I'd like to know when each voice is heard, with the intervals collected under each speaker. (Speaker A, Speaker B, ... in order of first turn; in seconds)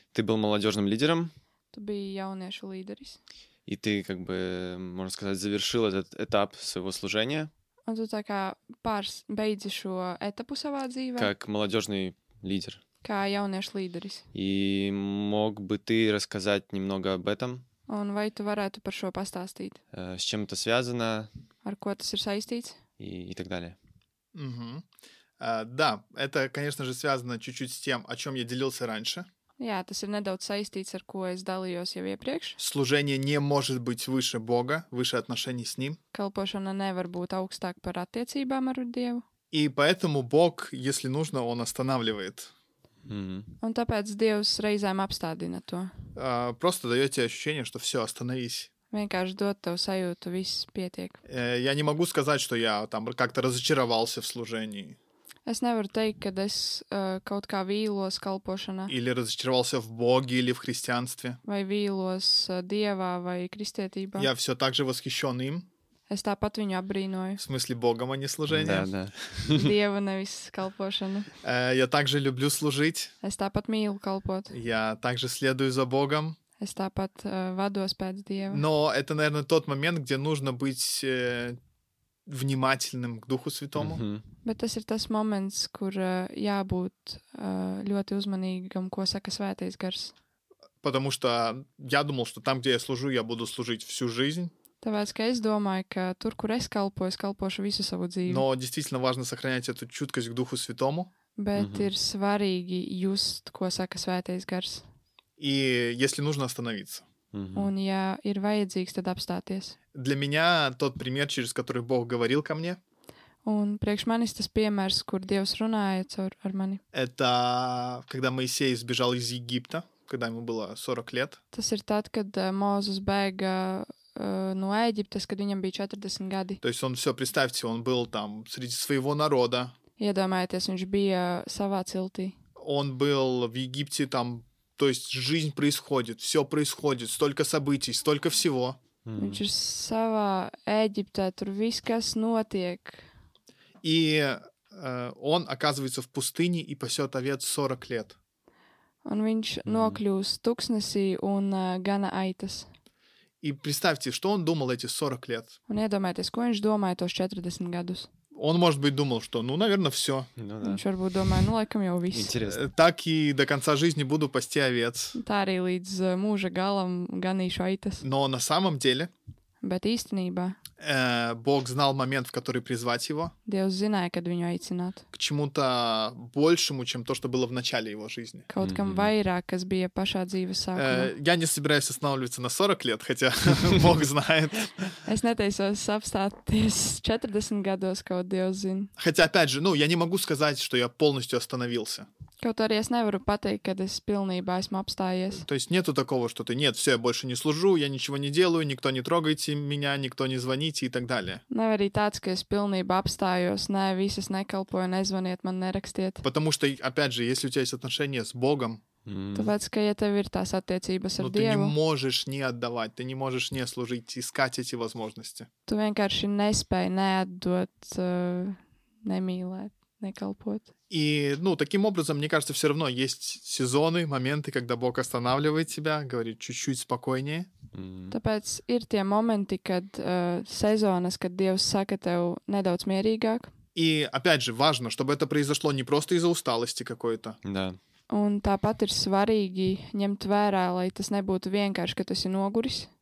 Speaker A: 0.1-1.3, 3.7-7.5, 11.2-12.8, 14.3-17.6, 19.9-21.3, 23.0-23.8, 43.1-43.5, 68.5-69.8, 83.8-84.2, 101.6-101.9, 107.3-107.7, 139.1-139.4, 149.7-150.0, 160.4-160.8, 162.1-162.7, 178.6-179.1, 209.1-209.5, 227.7-228.2, 237.4-237.8
Speaker B: 1.7-3.2, 7.9-11.3, 13.0-14.2, 17.9-19.8, 21.6-22.8, 29.6-32.6, 36.1-39.2, 43.6-45.9, 48.9-51.2, 55.5-59.0, 61.5-64.3, 66.1-67.4, 69.5-71.3, 73.2-74.5, 76.6-78.6, 84.4-90.1, 94.8-98.5, 101.4-104.8, 107.5-109.8, 113.5-116.8, 121.5-126.6, 130.0-132.4, 139.2-143.1, 149.1-152.7, 155.7-158.1, 160.6-162.3, 165.2-168.0, 169.6-170.6, 173.5-175.1, 178.5-181.1, 185.1-188.9, 192.4-195.4, 201.5-206.2, 209.3-211.8, 215.7-220.7, 228.1-233.5, 238.1-242.9
Speaker C: 24.3-24.9, 25.4-29.3, 32.6-36.0, 39.5-42.5, 46.1-48.7, 51.3-55.0, 58.9-61.4, 64.2-65.7, 67.4-68.9, 71.4-73.1, 74.5-76.4, 78.5-81.6, 82.3-84.0, 90.8-94.5, 98.3-101.1, 105.4-107.0, 109.9-112.8, 116.9-121.4, 126.6-129.8, 132.6-138.8, 143.8-148.2, 153.4-155.6, 158.3-160.3, 162.4-165.2, 168.0-169.1, 170.8-173.3, 175.1-178.5, 180.8-184.9, 189.0-192.1, 195.4-201.4, 206.2-208.8, 211.2-215.5, 220.9-227.5, 233.8-237.4